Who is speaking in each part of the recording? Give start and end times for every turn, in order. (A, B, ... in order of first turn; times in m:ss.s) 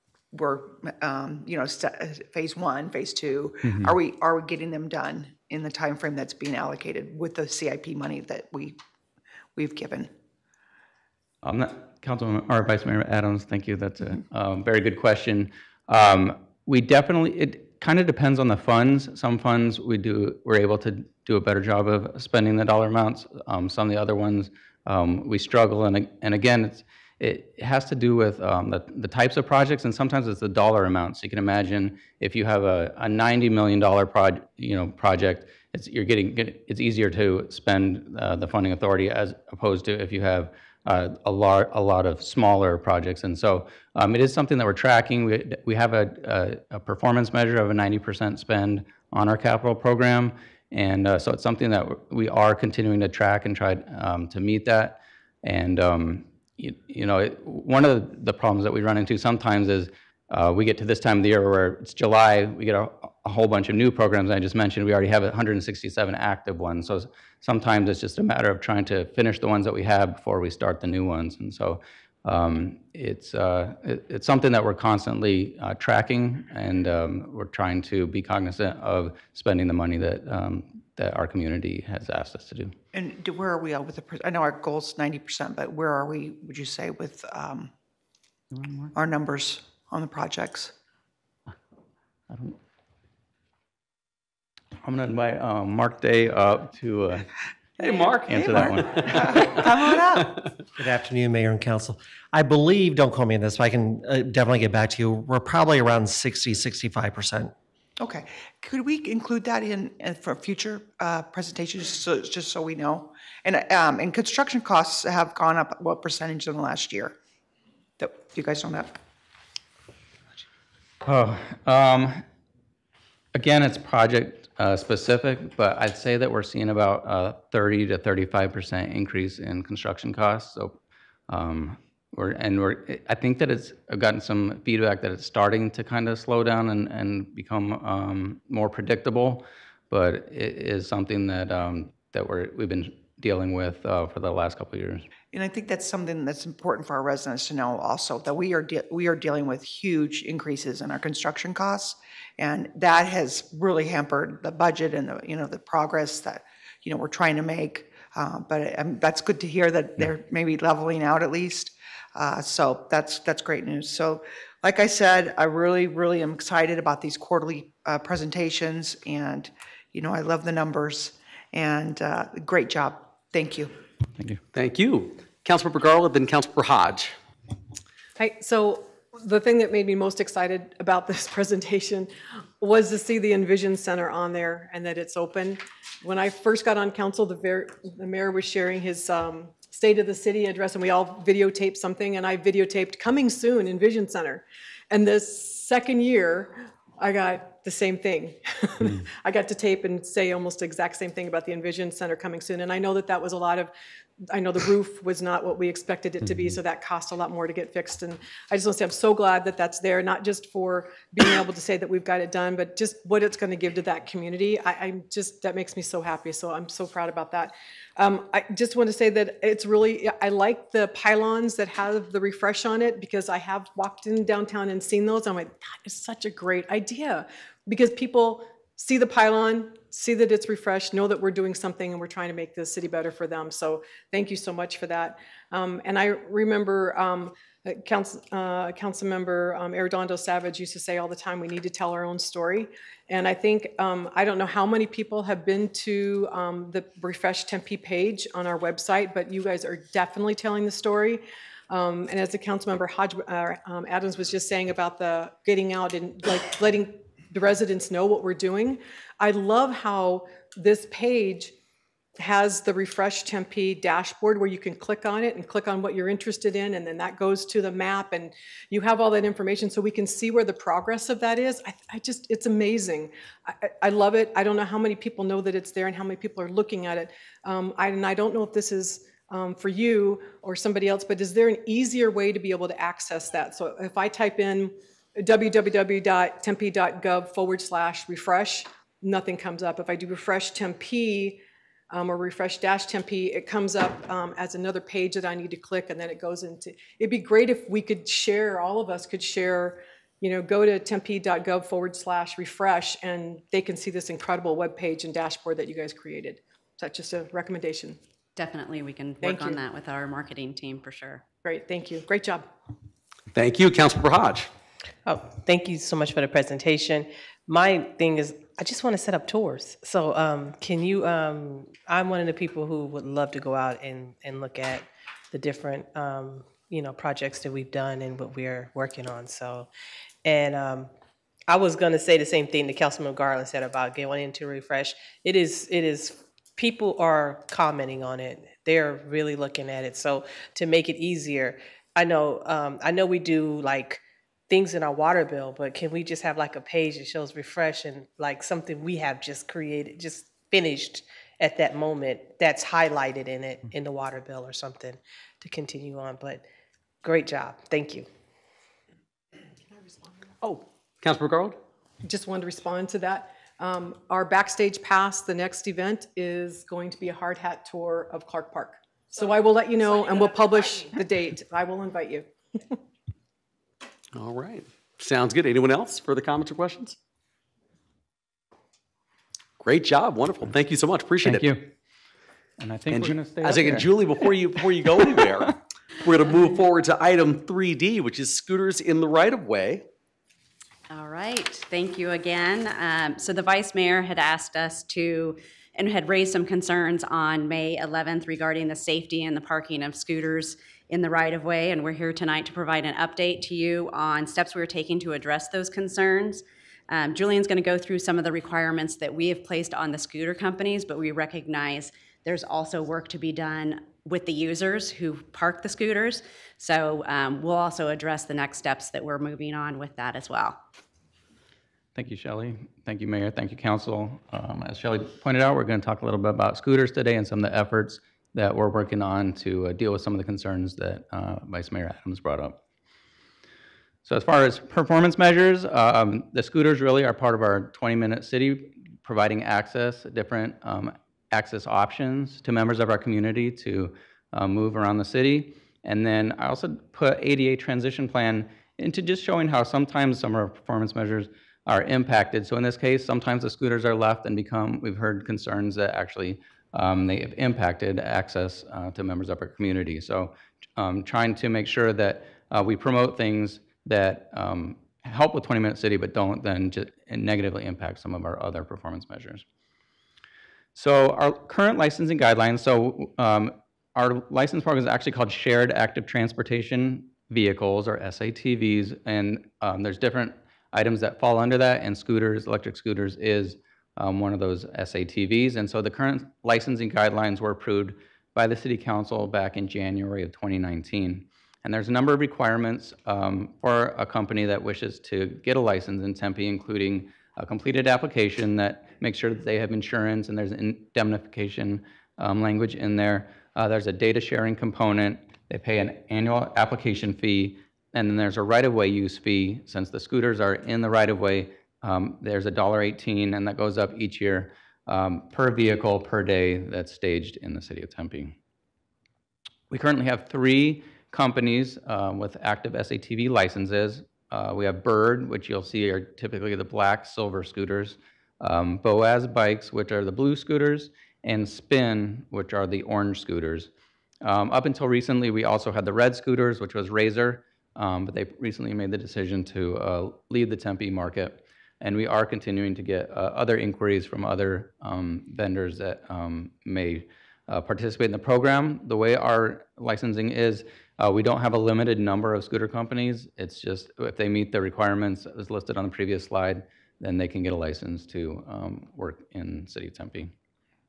0:00.3-0:08.8 A
0:09.6-0:10.1 A
0:11.4-1:22.7 B
1:22.9-1:27.7 A
1:29.0-1:30.7 A
1:34.8-1:37.3 B
1:37.8-1:39.6 B
1:39.4-1:40.4 A
1:40.8-1:47.5 C
1:48.0-1:57.2 A
1:58.0-1:58.9 A
2:01.0-2:02.2 B
2:03.4-2:10.8 B
2:11.3-2:25.1 B
2:25.3-2:53.7 A
2:54.5-2:57.2 D
2:58.2-3:02.1 E
3:02.6-3:23.7 E
3:24.3-4:21.5 E
4:22.2-5:08.0 E
5:08.4-5:11.2 F
5:09.2-5:09.6 E
5:11.4-5:12.5 E
5:13.3-5:14.5 D
5:15.1-5:29.7 G
5:30.2-5:30.9 G
5:31.5-5:56.4 G
5:57.0-5:58.1 G
6:00.4-6:01.6 D
6:02.0-6:12.3 E
6:14.1-6:17.0 D
6:19.6-6:21.5 D
6:21.2-6:21.7 B
6:22.6-6:24.3 B
6:22.9-6:29.9 D
6:25.0-6:25.3 B
6:30.9-7:00.6 F
7:02.0-7:12.6 B
7:14.0-7:49.4 B
7:50.8-8:38.4 B
8:39.7-8:53.7 B
8:54.2-9:20.3 B